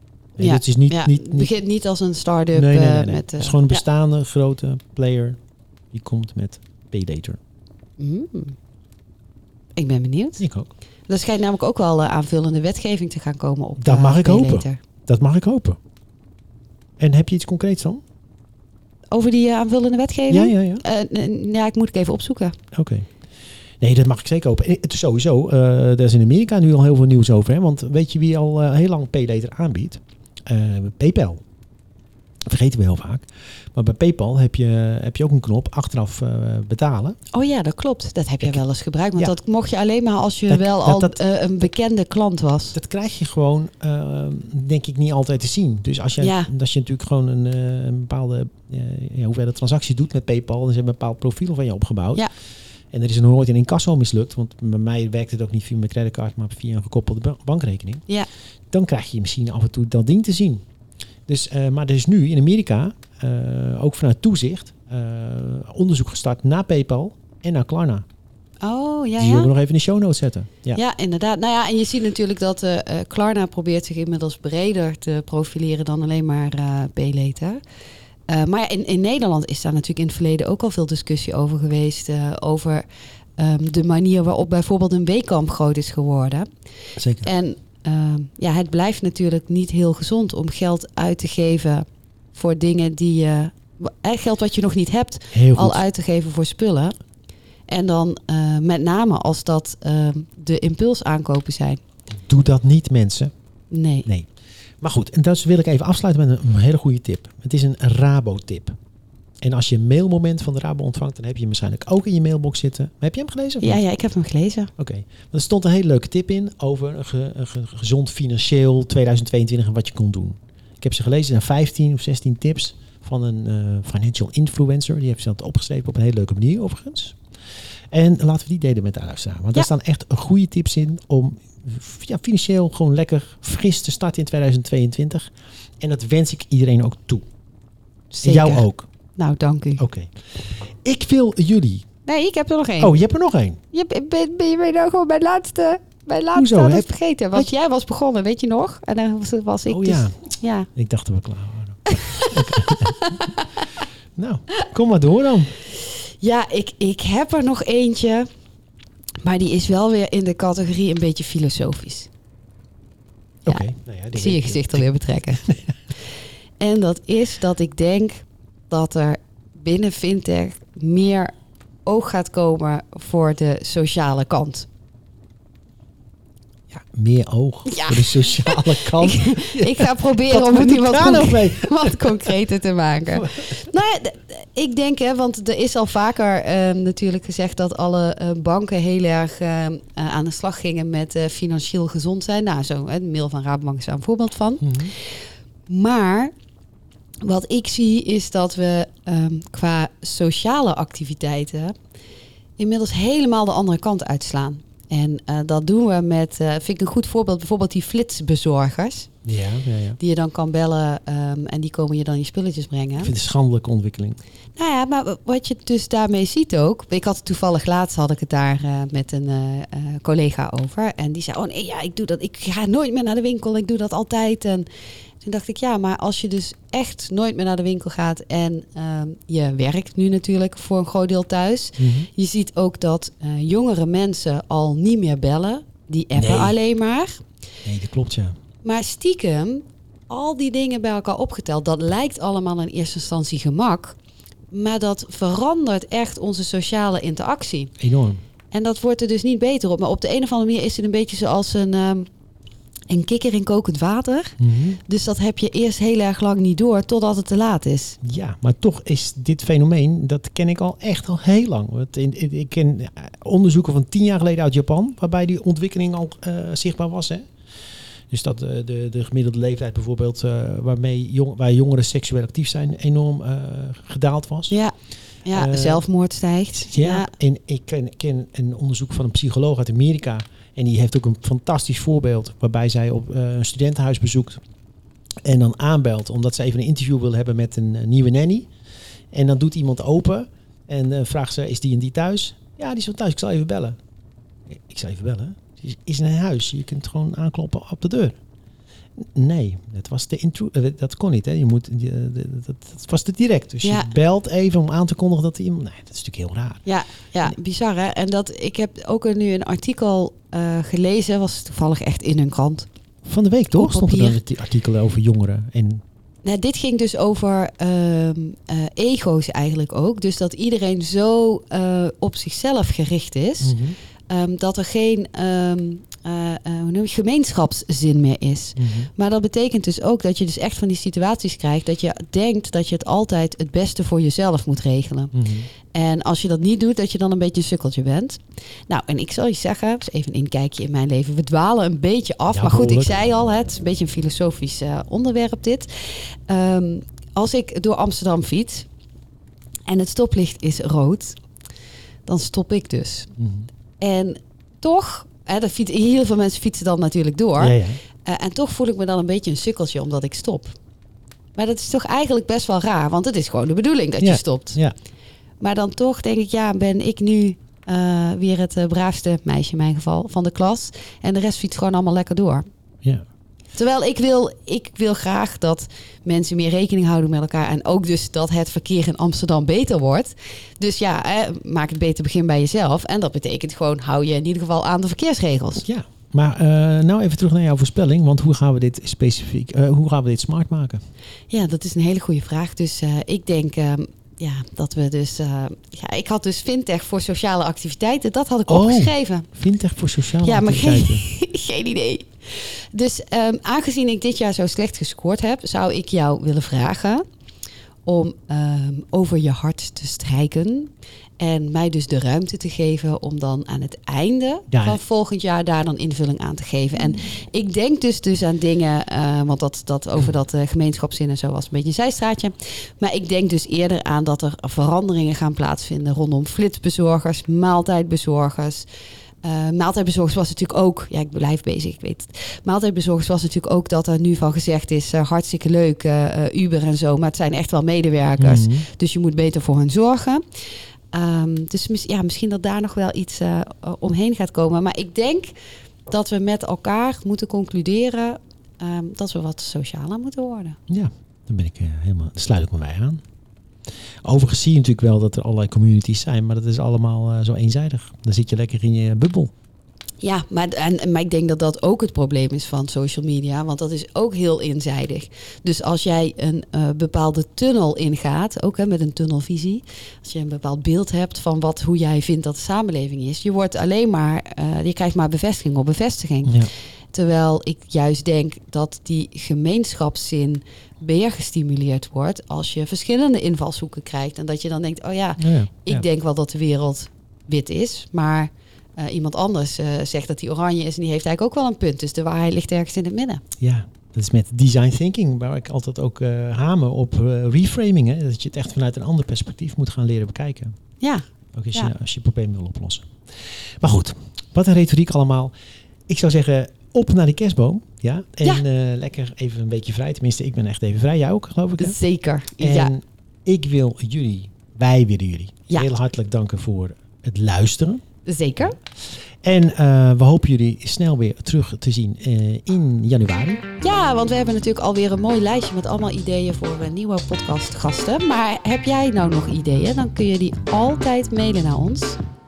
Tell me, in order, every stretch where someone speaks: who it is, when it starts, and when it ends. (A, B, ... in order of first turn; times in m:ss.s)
0:00.4-0:01.5 A
0:00.4-0:03.8 B
0:02.5-0:05.4 A
0:05.9-0:07.4 A
0:08.0-0:08.6 B
0:09.8-0:10.4 B
0:10.4-0:10.7 A
0:11.1-0:14.8 B
0:13.8-0:15.8 A
0:17.0-0:18.0 A
0:19.1-0:22.6 B
0:20.3-0:20.8 A
0:22.7-0:23.1 A
0:23.8-0:31.4 A
0:32.5-0:37.2 A
0:37.3-0:42.8 B
0:40.5-0:41.2 A
0:42.7-0:52.3 A
0:46.2-0:46.5 B
0:52.9-0:58.0 A
0:58.7-1:00.6 A
1:01.3-1:08.0 A
1:08.6-1:09.5 B
1:09.2-1:10.8 A
1:10.7-1:17.6 B
1:18.3-1:22.9 B
1:23.4-1:26.5 B
1:27.0-1:27.3 A
1:27.2-1:36.9 B
1:35.3-1:35.8 A
1:37.7-1:41.8 B
1:42.2-1:43.3 A
1:43.7-1:44.1 B
1:44.8-1:48.8 A
1:49.4-1:53.8 A
1:53.6-1:54.7 B
1:54.8-2:07.2 A
2:07.9-2:17.2 A
2:18.1-2:18.7 B
2:18.2-2:18.9 A
2:19.2-2:19.8 B
2:19.8-2:21.9 A
2:22.0-2:23.0 B
2:22.8-2:23.6 A
2:23.7-2:30.7 B
2:26.3-2:27.5 A
2:29.7-2:33.3 A
2:31.9-2:33.6 B
2:34.2-2:35.6 A
2:36.0-2:38.3 B
2:39.2-2:42.1 B
2:43.5-2:44.9 A
2:43.5-2:45.4 B
2:46.6-2:51.3 B
2:51.8-2:54.7 B
2:56.7-3:02.3 A
2:57.7-3:16.3 B
3:03.1-3:03.7 A
3:14.6-3:14.9 A
3:17.2-3:21.8 B
3:22.6-3:29.1 B
3:29.2-3:30.0 A
3:30.0-3:33.1 B
3:33.0-3:34.2 A
3:34.6-3:44.7 B
3:45.2-3:57.2 B
3:51.8-3:52.1 A
3:56.2-3:56.6 A
3:57.6-3:58.4 A
3:58.6-4:04.0 B
4:04.5-4:07.7 B
4:07.8-4:08.2 A
4:08.5-4:12.1 B
4:12.9-4:18.0 B
4:14.4-4:14.8 A
4:18.0-4:27.3 A
4:28.1-4:34.6 A
4:35.3-4:37.1 B
4:35.3-4:35.8 A
4:36.7-4:44.4 A
4:45.2-4:48.5 A
4:49.1-4:53.8 A
4:54.5-4:58.2 A
4:59.0-5:06.6 A
5:03.6-5:03.9 B
5:06.7-5:12.7 B
5:13.1-5:15.8 A
5:13.6-5:14.2 B
5:16.2-5:23.5 B
5:23.4-5:23.8 A
5:24.1-5:48.7 B
5:28.6-5:28.9 A
5:35.1-5:35.5 A
5:42.3-5:43.1 A
5:49.7-5:51.2 B
5:52.1-5:53.1 B
5:53.2-5:53.5 A
5:53.8-6:00.6 B
5:57.4-5:57.8 A
6:01.4-6:04.6 B
6:04.0-6:04.7 A
6:05.4-6:12.4 B
6:13.6-6:25.6 B
6:25.6-6:30.8 A
6:31.3-6:39.3 B
6:38.5-6:41.1 A
6:40.2-6:47.0 B
6:47.8-7:08.7 B
6:54.5-6:54.8 A
7:09.2-7:20.2 B
7:18.2-7:18.7 A
7:20.9-7:25.3 B
7:25.9-7:30.6 B
7:30.7-7:33.0 A
7:34.0-7:39.3 A
7:40.0-8:13.2 B
7:56.2-7:56.5 A
8:05.2-8:05.9 A
8:13.4-8:20.6 A
8:20.8-8:21.7 B
8:21.3-8:25.3 A
8:25.9-8:31.8 A
8:31.6-8:32.7 B
8:32.4-8:37.8 A
8:38.0-8:38.6 B
8:39.2-8:43.4 A
8:43.6-8:52.0 B